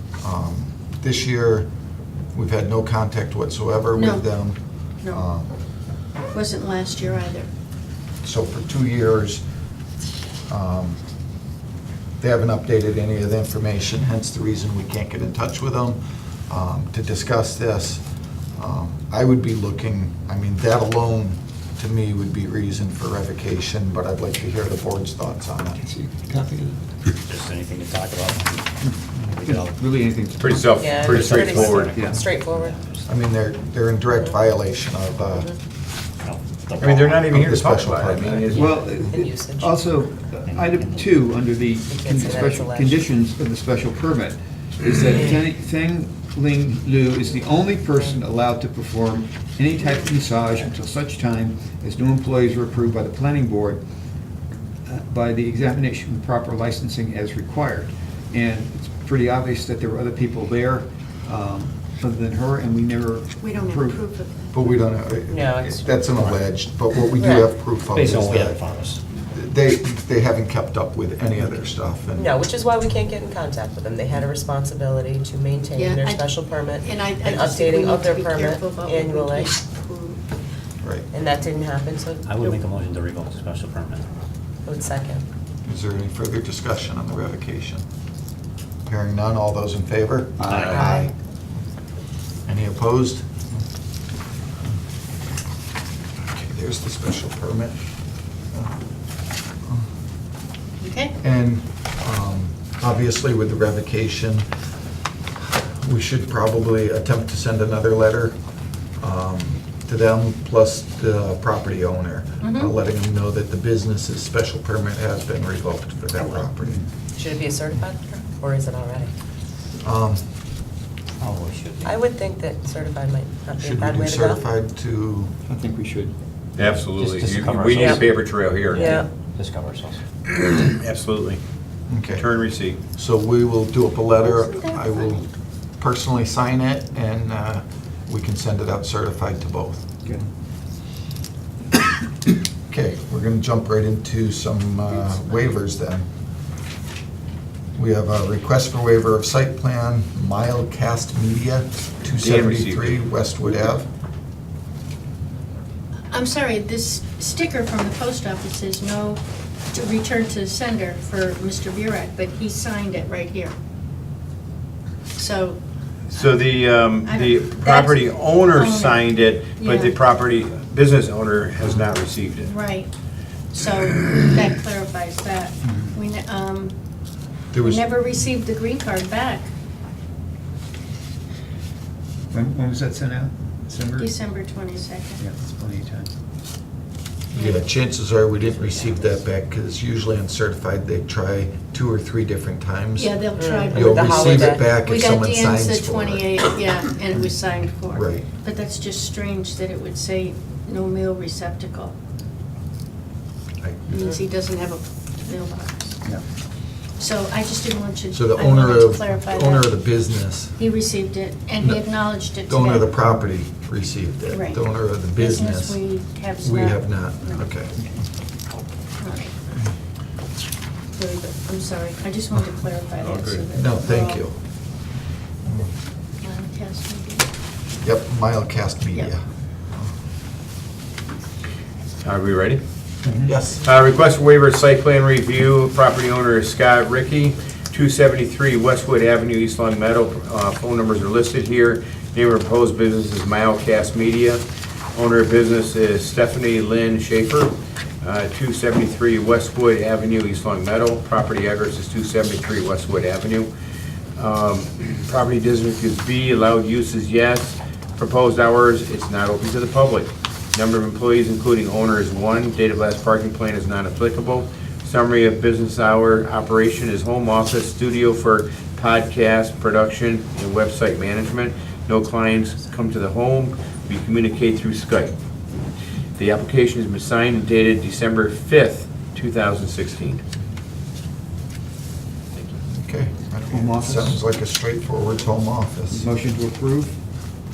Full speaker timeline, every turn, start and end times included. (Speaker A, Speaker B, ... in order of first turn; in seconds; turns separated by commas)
Speaker A: 0.2-1.7, Speaker A: 2.3-5.5, Speaker B: 3.9-4.2, Speaker B: 6.3-7.5, Speaker A: 8.2-9.4, Speaker A: 10.5-11.0, Speaker A: 12.2-18.0, Speaker A: 18.6-25.8, Speaker C: 25.8-26.8, Speaker D: 27.3-29.8, Speaker C: 28.8-32.2, Speaker E: 30.4-31.9, Speaker F: 30.8-32.8, Speaker D: 31.0-33.1, Speaker A: 33.1-35.5, Speaker D: 36.2-37.3, Speaker E: 36.8-38.8, Speaker A: 37.3-38.7, Speaker C: 38.5-53.8, Speaker F: 38.7-39.8, Speaker D: 40.4-41.0, Speaker F: 41.9-43.0, Speaker C: 54.9-64.0, Speaker B: 63.4-64.7, Speaker A: 64.5-68.6, Speaker F: 65.3-66.0, Speaker F: 67.2-67.5, Speaker D: 67.9-69.0, Speaker A: 69.2-72.3, Speaker F: 72.1-79.6, Speaker B: 75.7-80.2, Speaker A: 80.8-81.1, Speaker F: 81.1-82.3, Speaker D: 82.2-84.1, Speaker F: 84.6-85.2, Speaker A: 85.6-87.8, Speaker A: 88.8-91.1, Speaker C: 90.4-91.1, Speaker D: 90.4-90.9, Speaker F: 90.6-91.0, Speaker A: 92.5-93.4, Speaker A: 96.2-97.8, Speaker A: 98.5-98.8, Speaker B: 100.8-101.2, Speaker A: 101.2-104.5, Speaker A: 105.5-108.4, Speaker A: 109.0-116.8, Speaker B: 112.4-112.7, Speaker F: 117.1-119.1, Speaker A: 119.8-120.2, Speaker D: 121.2-121.9, Speaker F: 121.8-124.4, Speaker A: 123.6-125.3, Speaker C: 125.5-126.8, Speaker E: 126.5-129.0, Speaker D: 127.0-128.2, Speaker F: 127.7-128.1, Speaker F: 128.7-129.1, Speaker D: 128.7-130.0, Speaker E: 130.3-131.4, Speaker A: 131.9-132.2, Speaker E: 132.1-132.8, Speaker A: 132.9-135.3, Speaker B: 134.2-135.3, Speaker A: 135.8-139.9, Speaker A: 142.7-146.1, Speaker A: 147.8-153.9, Speaker E: 152.2-153.0, Speaker B: 156.1-159.2, Speaker B: 159.7-163.5, Speaker B: 165.2-165.6, Speaker E: 166.1-172.5, Speaker B: 166.1-166.4, Speaker B: 167.0-169.9, Speaker B: 172.4-172.9, Speaker B: 173.5-176.7, Speaker C: 175.7-175.9, Speaker A: 177.5-177.9, Speaker B: 177.5-179.5, Speaker C: 182.3-184.1, Speaker B: 184.0-185.2, Speaker C: 185.2-186.1, Speaker A: 187.3-196.4, Speaker B: 187.3-187.6, Speaker B: 192.9-201.9, Speaker F: 193.3-194.7, Speaker A: 197.9-198.2, Speaker A: 203.6-204.0, Speaker B: 203.9-206.0, Speaker B: 207.0-209.7, Speaker A: 208.1-210.6, Speaker B: 210.6-213.0, Speaker A: 211.6-215.8, Speaker B: 214.3-217.4, Speaker A: 216.4-217.8, Speaker B: 219.0-219.4, Speaker B: 220.9-224.2, Speaker E: 223.0-223.4, Speaker A: 223.5-224.3, Speaker B: 226.2-227.2, Speaker A: 227.8-229.9, Speaker E: 232.0-232.6, Speaker C: 233.0-233.3, Speaker A: 233.2-233.6, Speaker E: 233.6-244.4, Speaker E: 244.9-253.5, Speaker E: 254.2-275.1, Speaker E: 276.2-280.2, Speaker A: 282.7-286.1, Speaker C: 283.5-284.2, Speaker C: 285.9-287.0